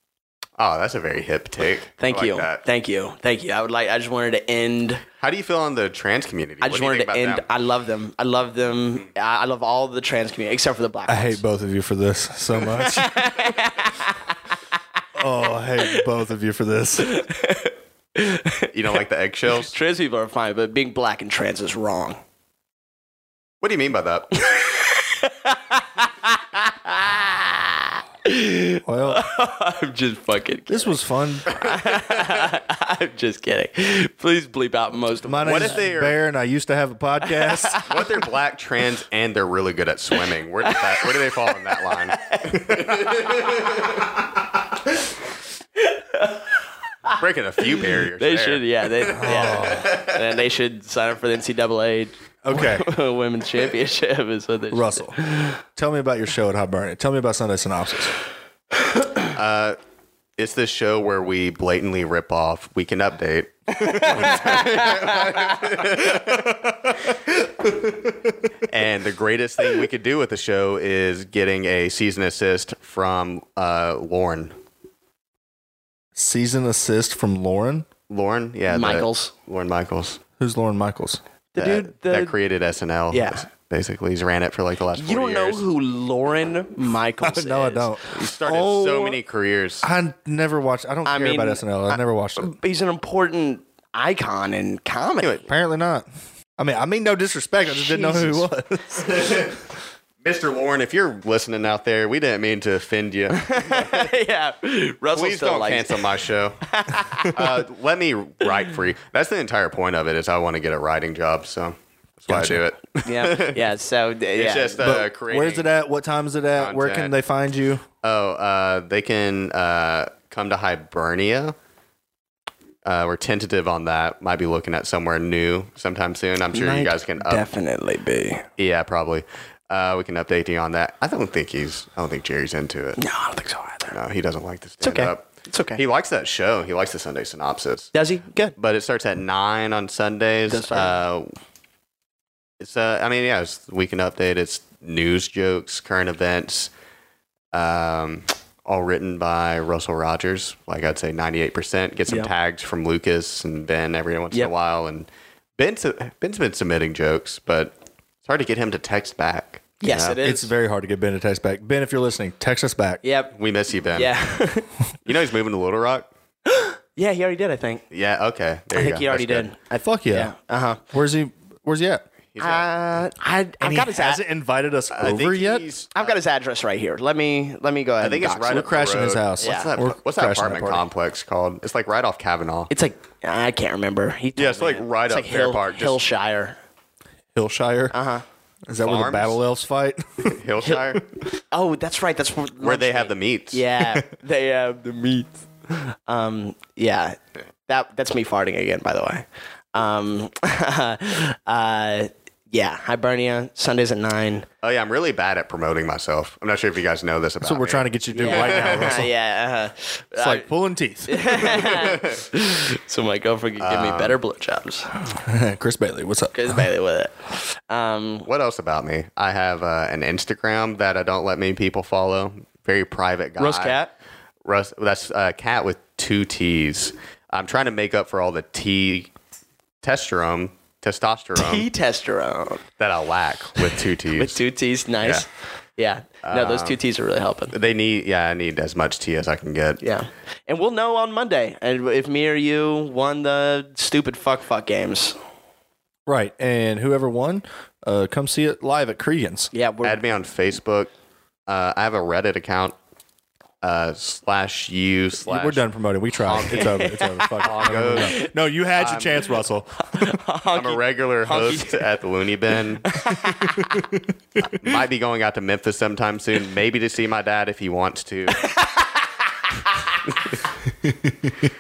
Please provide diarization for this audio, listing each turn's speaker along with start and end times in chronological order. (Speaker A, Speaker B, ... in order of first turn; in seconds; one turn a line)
Speaker A: 0.6-2.6
Speaker B: 2.0-5.0
Speaker A: 5.2-7.5
Speaker B: 6.6-11.4
Speaker C: 11.1-13.2
Speaker B: 12.7-14.4
Speaker C: 15.2-17.2
Speaker B: 15.7-16.1
Speaker B: 17.0-18.7
Speaker A: 18.7-19.7
Speaker B: 19.6-22.2
Speaker A: 23.6-24.3
Speaker B: 24.3-35.8
Speaker C: 28.9-29.2
Speaker C: 30.7-31.6
Speaker A: 31.6-32.4
Speaker C: 35.2-37.8
Speaker A: 35.4-36.2
Speaker B: 37.3-38.2
Speaker A: 37.9-44.0
Speaker B: 40.6-43.9
Speaker B: 45.8-55.6
Speaker A: 47.1-50.2
Speaker C: 49.1-49.9
Speaker C: 52.4-52.9
Speaker C: 54.7-58.1
Speaker A: 59.3-59.8
Speaker A: 60.4-66.5
Speaker B: 63.8-65.2
Speaker C: 66.3-68.3
Speaker A: 68.7-74.5
Speaker C: 76.2-77.9
Speaker A: 78.1-80.2
Speaker B: 78.7-79.3
Speaker C: 80.4-81.2
Speaker B: 81.6-82.3
Speaker A: 81.6-85.7
Speaker B: 83.1-83.5
Speaker B: 85.0-89.2
Speaker C: 87.2-88.1
Speaker A: 88.1-89.9
Speaker C: 89.8-92.5
Speaker B: 91.0-95.5
Speaker A: 95.2-95.5
Speaker C: 95.5-96.1
Speaker C: 96.6-99.5
Speaker B: 97.7-98.5
Speaker A: 99.1-99.5
Speaker A: 100.2-104.1
Speaker B: 103.4-106.0
Speaker A: 105.1-106.6
Speaker B: 106.6-107.5
Speaker A: 107.3-113.7
Speaker C: 112.3-112.6
Speaker B: 113.0-114.8
Speaker A: 114.3-115.7
Speaker C: 114.8-117.8
Speaker A: 116.6-117.1
Speaker A: 118.0-121.5
Speaker A: 122.8-127.5
Speaker B: 126.5-128.5
Speaker A: 128.6-133.0
Speaker B: 133.0-134.0
Speaker A: 133.9-135.2
Speaker B: 134.8-135.8
Speaker A: 135.8-137.9
Speaker B: 137.9-138.6
Speaker A: 138.6-141.3
Speaker B: 140.5-141.0
Speaker A: 142.6-146.7
Speaker A: 147.5-157.7
Speaker A: 158.2-160.2
Speaker B: 159.8-160.5
Speaker C: 160.2-163.0
Speaker B: 163.0-163.3
Speaker A: 163.3-164.1
Speaker B: 163.9-164.7
Speaker A: 165.1-166.1
Speaker B: 166.5-167.8
Speaker A: 167.9-169.5
Speaker B: 168.8-170.8
Speaker C: 169.8-170.3
Speaker C: 170.9-172.0
Speaker A: 172.3-172.7
Speaker B: 172.4-174.2
Speaker C: 173.6-175.7
Speaker A: 174.9-176.2
Speaker B: 175.9-178.6
Speaker A: 178.0-182.7
Speaker C: 178.4-180.9
Speaker B: 179.4-179.7
Speaker B: 182.7-186.6
Speaker A: 184.4-186.0
Speaker C: 187.3-187.9
Speaker B: 187.9-188.2
Speaker C: 188.7-190.4
Speaker A: 188.8-189.4
Speaker A: 190.3-191.0
Speaker B: 191.5-204.5
Speaker A: 192.6-193.7
Speaker A: 204.6-209.0
Speaker C: 207.4-209.1
Speaker B: 208.1-210.5
Speaker C: 210.2-211.8
Speaker B: 211.1-214.9
Speaker A: 211.5-212.2
Speaker A: 213.6-214.2
Speaker C: 215.0-216.7
Speaker B: 216.3-217.2
Speaker B: 217.7-218.3
Speaker A: 218.3-223.8
Speaker B: 223.4-223.9
Speaker A: 224.4-229.1
Speaker A: 229.8-231.7
Speaker B: 231.4-232.6
Speaker A: 232.8-234.4
Speaker B: 234.1-237.6
Speaker A: 236.2-236.8
Speaker A: 237.5-239.8
Speaker B: 239.8-245.2
Speaker C: 246.1-249.5
Speaker B: 249.5-250.0
Speaker A: 249.8-250.9
Speaker A: 251.5-252.8
Speaker A: 253.6-255.6
Speaker C: 255.3-260.2
Speaker A: 256.2-259.3
Speaker B: 256.5-258.3
Speaker B: 259.8-261.9
Speaker A: 260.6-262.9
Speaker B: 262.8-263.9
Speaker C: 263.3-264.4
Speaker A: 264.5-268.5
Speaker B: 268.4-269.9
Speaker C: 270.8-271.4